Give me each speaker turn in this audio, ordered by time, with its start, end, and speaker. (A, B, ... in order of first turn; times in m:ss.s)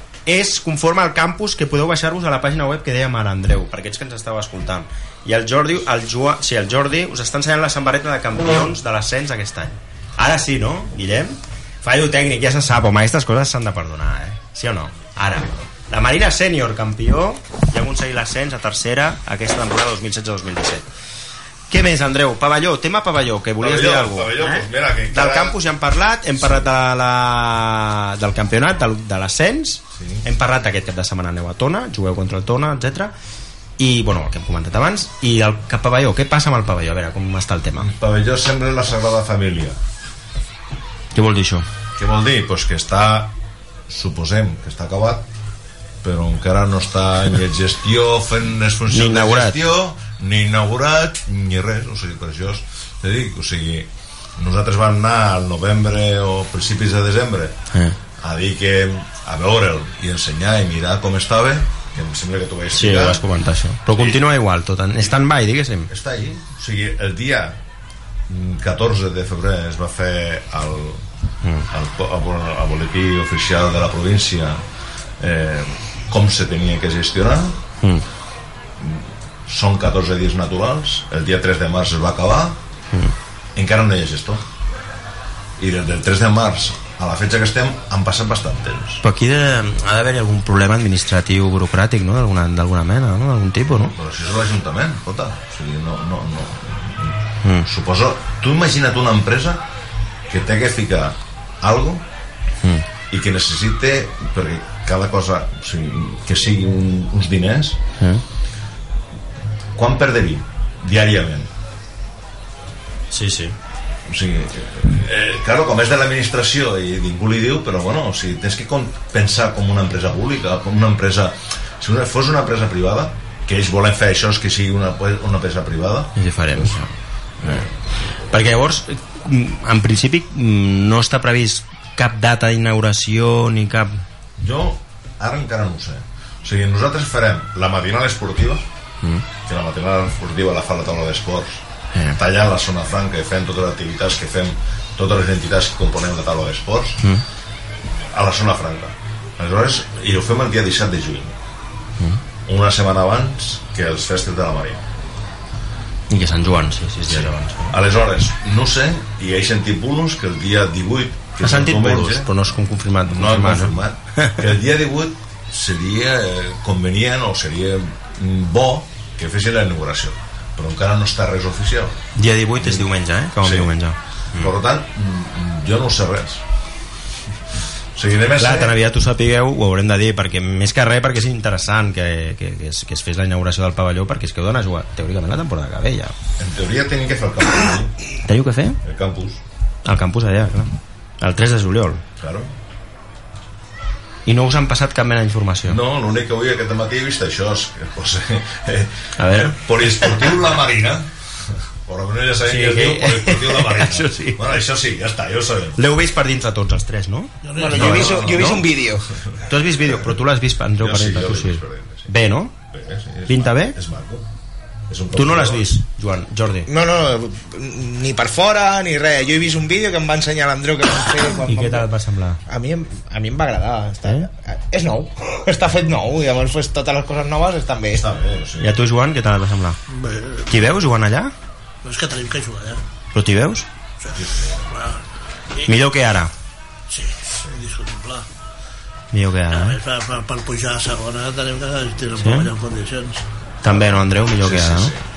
0:00.2-0:20.9 A
0:21.7-0:33.1 A
0:23.6-0:25.6 B
0:30.0-0:30.2 B
0:33.8-0:37.9 A
0:37.8-0:39.8 B
0:41.1-0:41.7 A
0:42.0-0:43.3 B
0:43.9-0:45.3 B
0:46.0-0:57.6 B
0:48.9-0:49.6 A
0:57.7-0:58.0 A
0:58.2-1:03.2 B
1:02.7-1:05.9 A
1:03.9-1:04.2 B
1:05.9-1:07.6 B
1:08.3-1:11.0 B
1:11.7-1:14.6 B
1:15.2-1:17.6 B
1:17.8-1:18.0 A
1:18.8-1:22.6 B
1:23.6-1:24.4 B
1:25.6-1:29.0 B
1:29.0-1:33.9 A
1:33.9-1:39.6 B
1:40.3-1:42.0 B
1:43.1-1:47.8 B
1:49.8-1:51.5 B
1:53.1-1:53.6 A
1:54.0-2:06.7 B
2:06.2-2:14.0 A
2:07.4-2:07.7 B
2:14.4-2:18.6 B
2:19.4-2:21.6 B
2:21.9-2:22.2 A
2:22.1-2:27.0 B
2:28.1-2:31.4 B
2:32.4-2:34.9 B
2:36.1-2:37.8 A
2:37.1-2:42.3 B
2:41.4-2:44.4 A
2:43.0-2:52.0 B
2:52.2-2:54.5 A
2:52.6-2:52.9 B
2:53.4-2:53.7 B
2:54.4-2:56.4 B
2:57.9-2:58.8 B
2:58.3-3:06.1 A
3:06.4-3:07.9 B
3:08.2-3:08.8 A
3:08.8-3:09.4 B
3:09.8-3:12.0 A
3:12.2-3:12.5 B
3:14.2-3:15.8 A
3:15.6-3:25.8 B
3:19.2-3:20.2 A
3:22.4-3:24.5 A
3:25.8-3:28.7 A
3:27.4-3:28.1 C
3:27.6-3:29.1 D
3:27.8-3:28.6 B
3:29.4-3:32.5 A
3:30.8-3:32.1 B
3:32.7-3:34.3 B
3:33.3-3:33.8 A
3:34.9-3:35.7 B
3:35.1-3:36.7 A
3:36.7-3:41.9 D
3:41.4-3:42.4 A
3:42.5-3:48.1 D
3:47.9-3:48.8 B
3:48.6-3:49.8 A
3:49.9-3:50.5 C
3:50.5-3:51.3 A
3:51.8-3:52.8 C
3:53.1-3:53.7 A
3:54.1-3:55.0 C
3:54.1-3:54.7 B
3:55.6-3:56.3 A
3:56.9-3:58.2 C
3:59.1-3:59.8 A
3:59.5-4:03.2 C
4:02.2-4:02.5 A
4:03.6-4:04.9 A
4:03.6-4:05.0 B